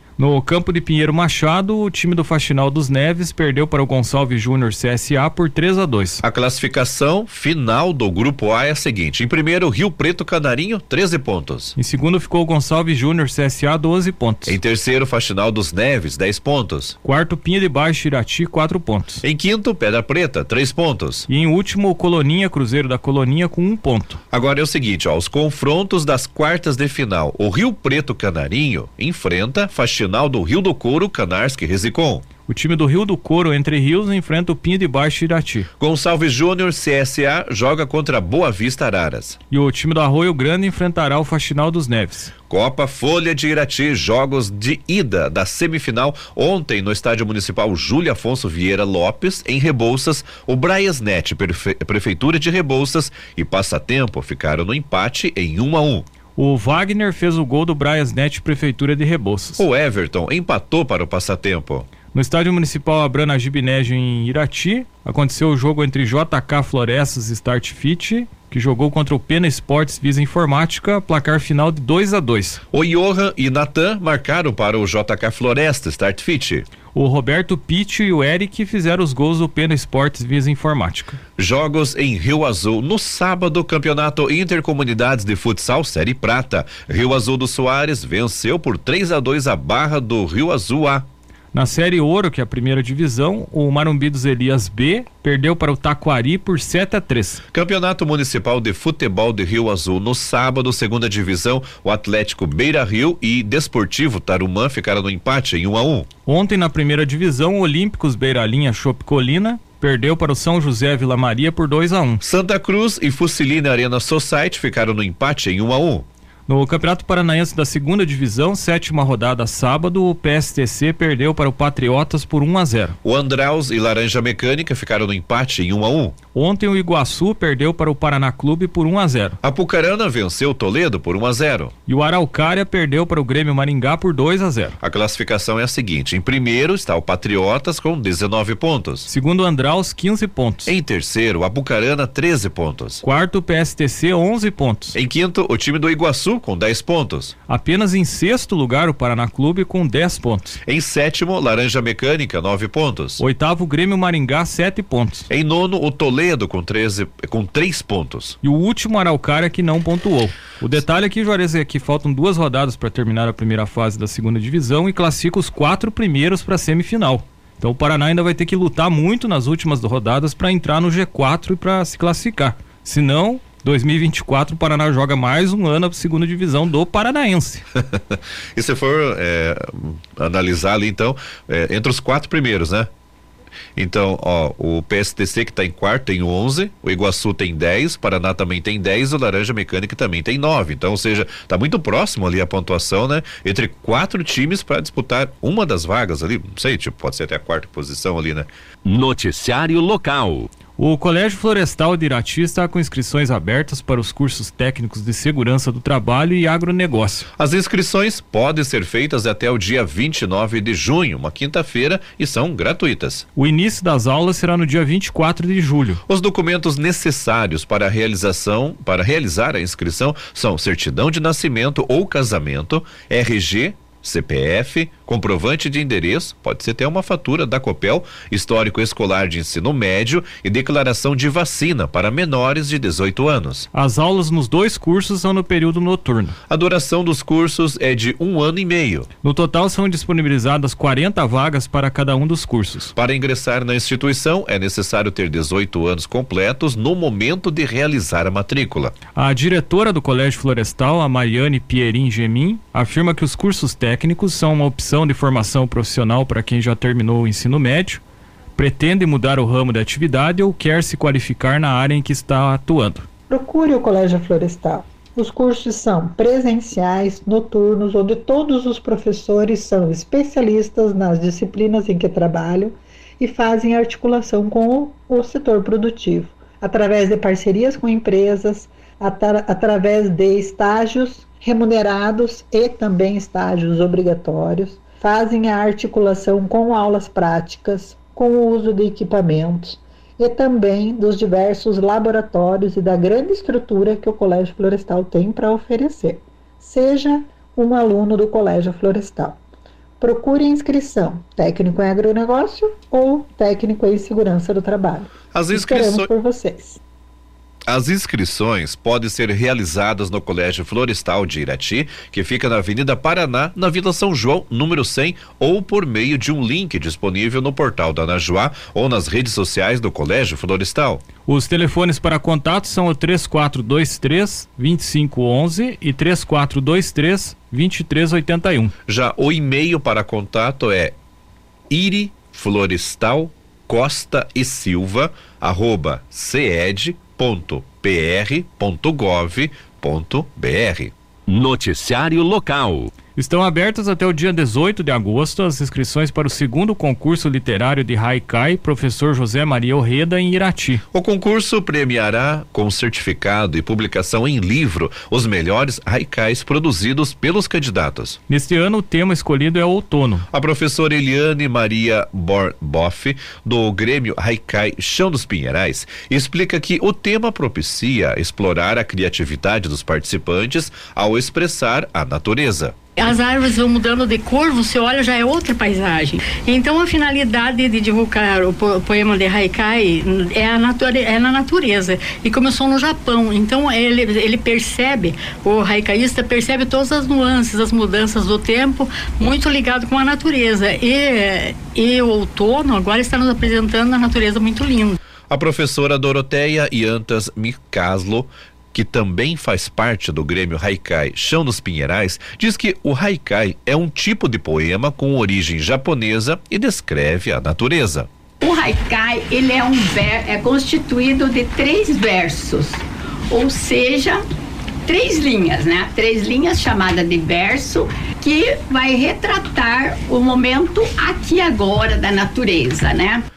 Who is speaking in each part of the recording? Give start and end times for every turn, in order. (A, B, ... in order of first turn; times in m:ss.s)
0:00.2-0:06.2 A
0:06.2-0:11.8 B
0:11.8-0:14.6 A
0:14.5-0:17.0 B
0:17.0-0:19.2 A
0:19.2-0:21.3 B
0:21.3-0:24.2 A
0:24.3-0:32.2 B
0:32.5-0:35.7 A
0:35.8-0:39.4 B
0:39.5-0:42.3 A
0:42.5-0:56.1 B
0:56.4-0:59.6 A
0:59.6-1:01.9 B
1:02.1-1:12.6 A
1:12.7-1:16.7 B
1:16.9-1:21.2 A
1:21.4-1:31.1 B
1:31.5-1:37.4 A
1:37.5-1:46.1 B
1:46.3-1:52.2 A
1:52.2-1:56.1 B
1:56.5-2:03.0 A
2:03.0-2:06.2 B
2:06.3-2:09.4 A
2:09.4-2:11.7 B
2:11.9-2:14.8 A
2:14.8-2:19.1 B
2:19.1-2:20.7 A
2:20.7-2:23.0 B
2:23.0-2:25.0 A
2:24.9-2:27.3 B
2:27.5-2:30.6 A
2:30.7-2:33.2 B
2:33.2-2:35.3 A
2:35.3-2:38.4 B
2:38.4-2:57.6 A
2:57.9-3:02.9 B
3:03.8-3:18.5 B
3:18.8-3:20.5 C
3:20.8-3:27.3 A
3:27.4-3:33.3 B
3:33.4-3:36.0 A
3:36.1-3:53.7 B
3:53.7-3:56.4 A
3:56.5-3:59.1 B
3:59.2-4:02.9 A
4:03.0-4:09.0 B
4:09.2-4:18.0 A
4:18.6-4:23.1 A
4:23.3-4:59.4 D
5:00.0-5:06.8 D
5:05.3-5:06.1 B
5:07.7-5:21.0 B
5:21.3-5:28.7 A
5:28.9-5:31.0 B
5:31.7-5:40.9 B
5:41.3-5:42.9 C
5:43.2-5:50.8 A
5:50.9-5:58.2 B
5:58.3-6:00.3 A
6:00.3-6:12.8 B
6:13.0-6:35.0 E
6:35.3-6:48.1 B
6:48.4-6:54.2 F
6:54.9-7:03.2 F